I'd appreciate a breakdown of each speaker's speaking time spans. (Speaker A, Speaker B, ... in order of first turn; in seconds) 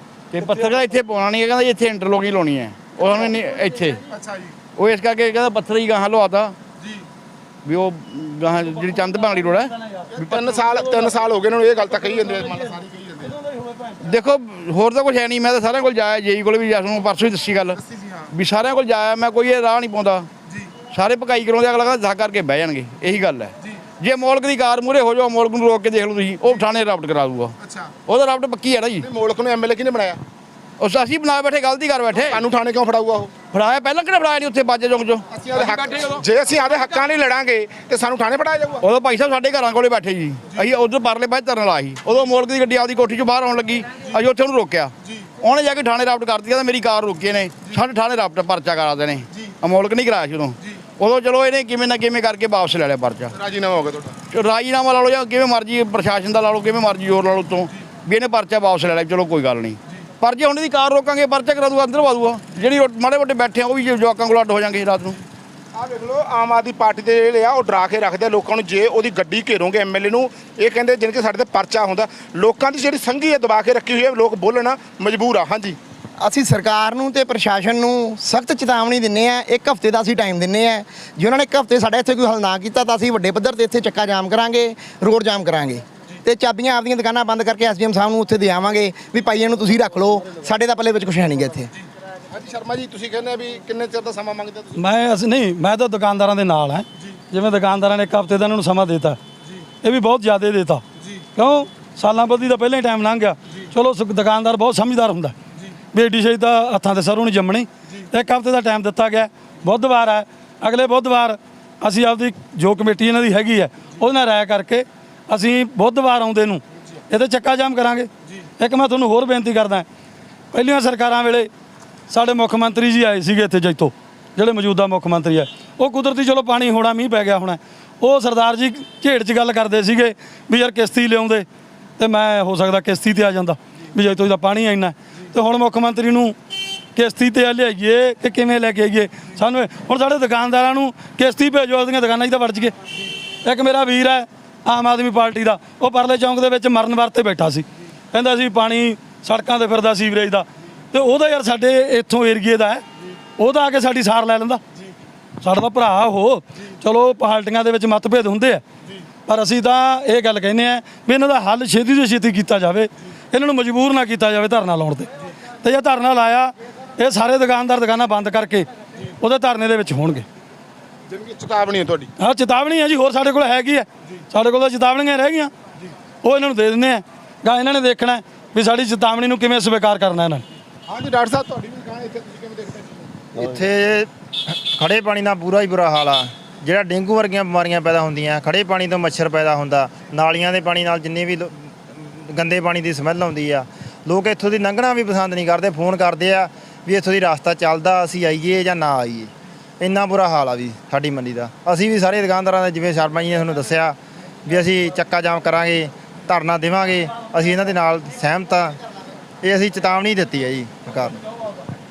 Speaker A: 0.3-4.0, 4.8-6.6, 7.7-9.7, 14.0-17.8, 18.3-20.3, 20.9-27.5, 28.1-29.1, 30.8-32.4, 33.5-36.2, 38.8-53.3, 54.3-65.2
Speaker B: 4.1-4.5, 10.1-13.3, 17.8-18.3, 27.6-27.9, 29.0-30.2, 32.1-33.3, 35.3-38.9, 53.3-54.1, 65.8-75.8, 92.3-94.8, 171.1-172.1, 180.9-183.1
Speaker C: 76.2-91.7
Speaker D: 94.8-99.2, 99.8-100.8, 101.4-105.3, 105.9-119.9, 120.5-121.5, 122.1-131.5, 132.0-136.3, 137.0-142.7, 143.4-152.8, 153.4-154.6, 155.4-158.6, 159.3-165.1, 165.6-168.7, 169.2-170.3, 172.2-175.5, 176.2-180.4
Speaker E: 183.3-208.8, 209.4-211.2